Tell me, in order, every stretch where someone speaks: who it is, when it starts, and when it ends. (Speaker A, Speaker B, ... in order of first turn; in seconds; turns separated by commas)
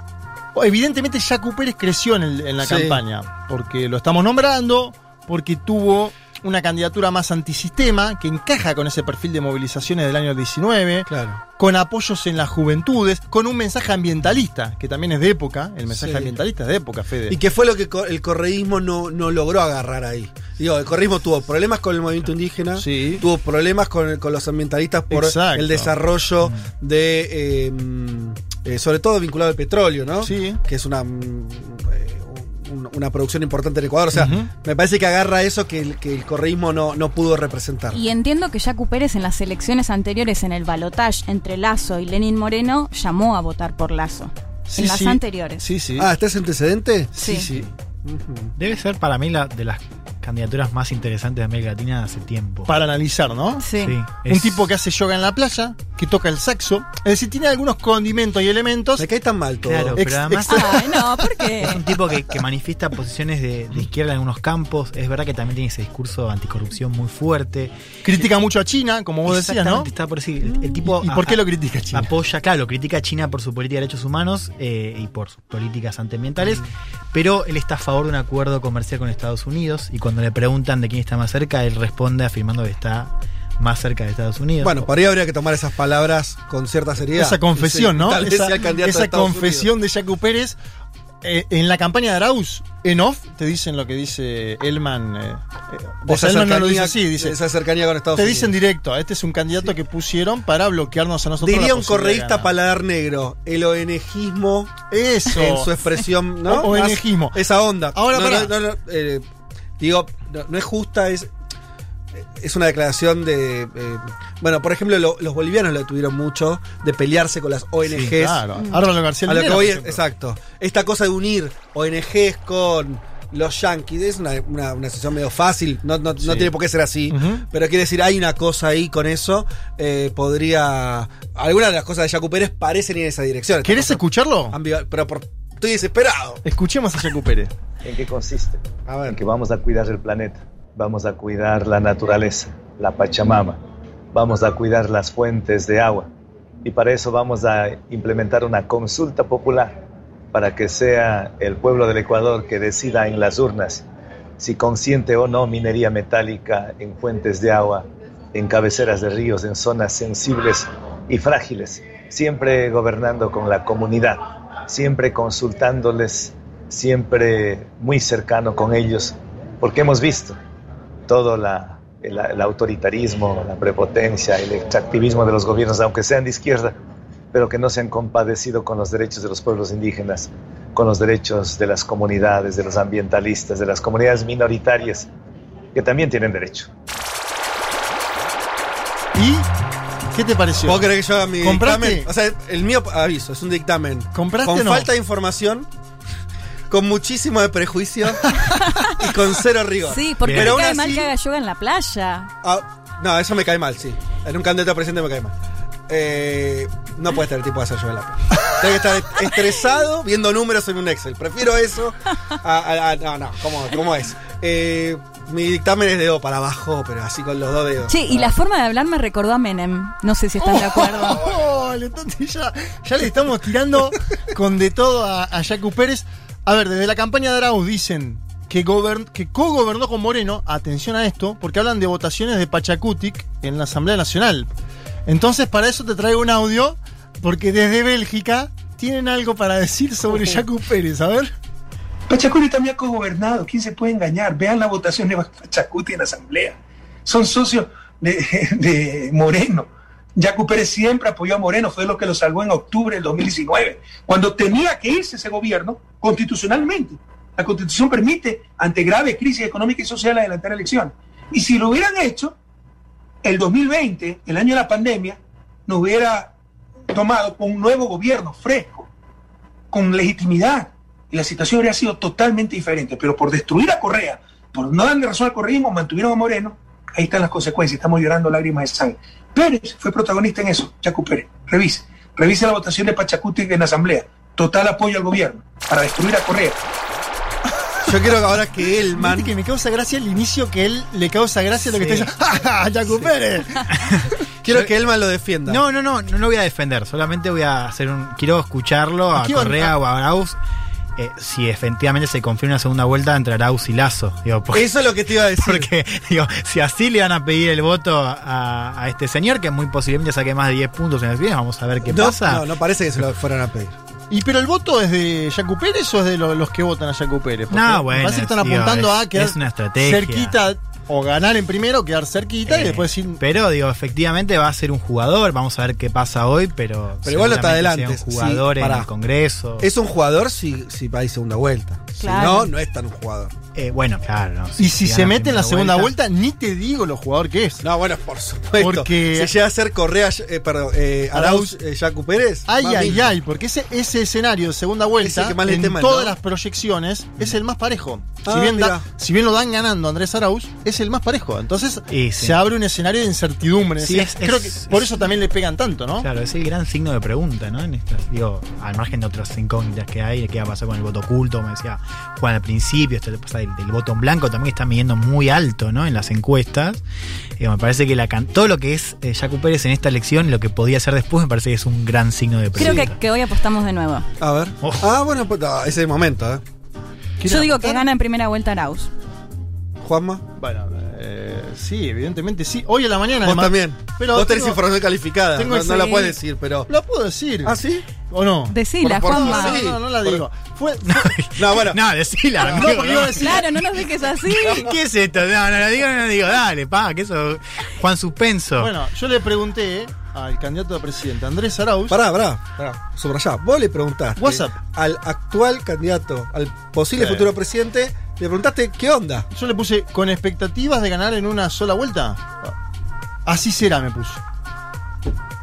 Speaker A: 0.5-17.4, Speaker B: 2.6-3.0, Speaker B: 11.1-11.4, Speaker B: 15.9-16.3, Speaker B: 17.3-38.0, Speaker A: 22.8-23.2, Speaker A: 25.1-25.9, Speaker A: 30.2-30.6, Speaker A: 34.1-34.5, Speaker C: 37.9-45.6, Speaker A: 44.7-46.1, Speaker B: 46.0-48.5, Speaker C: 47.2-47.5, Speaker D: 48.6-52.7, Speaker A: 52.7-53.6, Speaker C: 53.6-53.9, Speaker D: 53.8-54.7, Speaker A: 54.2-59.0, Speaker B: 59.0-60.8, Speaker D: 59.6-60.8, Speaker A: 59.9-60.5, Speaker C: 60.5-61.8, Speaker D: 61.6-68.2, Speaker A: 68.0-69.9, Speaker D: 69.2-71.4, Speaker B: 70.5-70.8, Speaker A: 70.8-72.1, Speaker D: 71.9-84.8, Speaker B: 84.6-89.7, Speaker A: 87.1-90.6, Speaker A: 91.2-97.3, Speaker B: 96.1-98.5, Speaker A: 98.1-102.5, Speaker B: 101.4-104.7, Speaker A: 104.9-105.7, Speaker B: 105.3-109.2, Speaker A: 106.5-107.4, Speaker A: 107.9-108.5, Speaker B: 109.8-111.3, Speaker B: 112.2-118.5, Speaker A: 117.8-120.0, Speaker B: 119.2-136.4, Speaker A: 126.2-126.5, Speaker A: 127.1-127.4, Speaker A: 133.6-134.6, Speaker A: 136.4-137.5, Speaker E: 137.8-143.6, Speaker B: 138.9-139.2, Speaker E: 144.1-146.1, Speaker E: 146.6-149.8, Speaker E: 150.3-153.8, Speaker E: 154.4-170.3, Speaker E: 171.1-176.7, Speaker E: 177.3-185.1, Speaker E: 185.7-186.7, Speaker A: 189.1-189.5, Speaker A: 190.1-190.9, Speaker B: 190.6-195.7, Speaker A: 191.4-192.1, Speaker A: 194.1-194.9, Speaker B: 196.7-201.1, Speaker C: 198.4-198.9, Speaker C: 199.8-202.3, Speaker D: 200.2-200.6, Speaker B: 202.4-205.3, Speaker B: 205.9-218.2, Speaker C: 217.9-221.2, Speaker A: 220.4-234.5, Speaker A: 235.1-241.3, Speaker B: 240.1-240.4, Speaker F: 242.1-262.4, Speaker F: 263.2-266.3, Speaker F: 266.9-268.9, Speaker F: 269.7-286.6, Speaker B: 287.9-289.3, Speaker A: 288.9-293.9, Speaker D: 291.7-292.1, Speaker D: 293.7-294.1, Speaker A: 294.4-294.7, Speaker B: 294.4-295.6, Speaker D: 295.4-300.4, Speaker A: 299.1-299.7, Speaker D: 301.0-312.5, Speaker B: 304.5-305.7, Speaker B: 311.9-313.7, Speaker A: 314.1-323.2, Speaker D: 317.5-320.4, Speaker D: 322.4-329.7, Speaker B: 327.0-328.9, Speaker B: 329.6-333.3, Speaker C: 332.0-332.5, Speaker D: 333.5-335.9, Speaker A: 334.6-337.6, Speaker B: 337.6-343.1, Speaker A: 338.6-339.3, Speaker A: 341.1-341.5, Speaker A: 342.5-356.1, Speaker B: 345.0-346.2, Speaker B: 348.2-348.8, Speaker D: 351.9-352.4, Speaker D: 353.8-355.1, Speaker D: 356.0-366.8, Speaker D: 367.4-373.0, Speaker C: 372.6-374.1, Speaker B: 372.6-372.9, Speaker B: 374.2-376.4, Speaker D: 374.6-374.9, Speaker A: 377.2-377.8, Speaker C: 377.2-378.9, Speaker B: 379.8-380.2, Speaker A: 380.4-384.6, Speaker B: 383.2-386.7, Speaker A: 385.3-386.1, Speaker A: 386.7-391.2, Speaker B: 387.4-387.9, Speaker C: 388.5-389.6, Speaker B: 388.8-390.2, Speaker D: 390.9-393.5, Speaker B: 391.4-391.8, Speaker B: 392.4-392.7, Speaker A: 392.4-393.5, Speaker C: 393.1-394.7, Speaker D: 394.4-398.7, Speaker A: 398.6-402.0, Speaker B: 401.9-409.3, Speaker A: 404.2-404.6, Speaker A: 406.9-407.3, Speaker A: 409.3-412.5, Speaker A: 413.2-414.2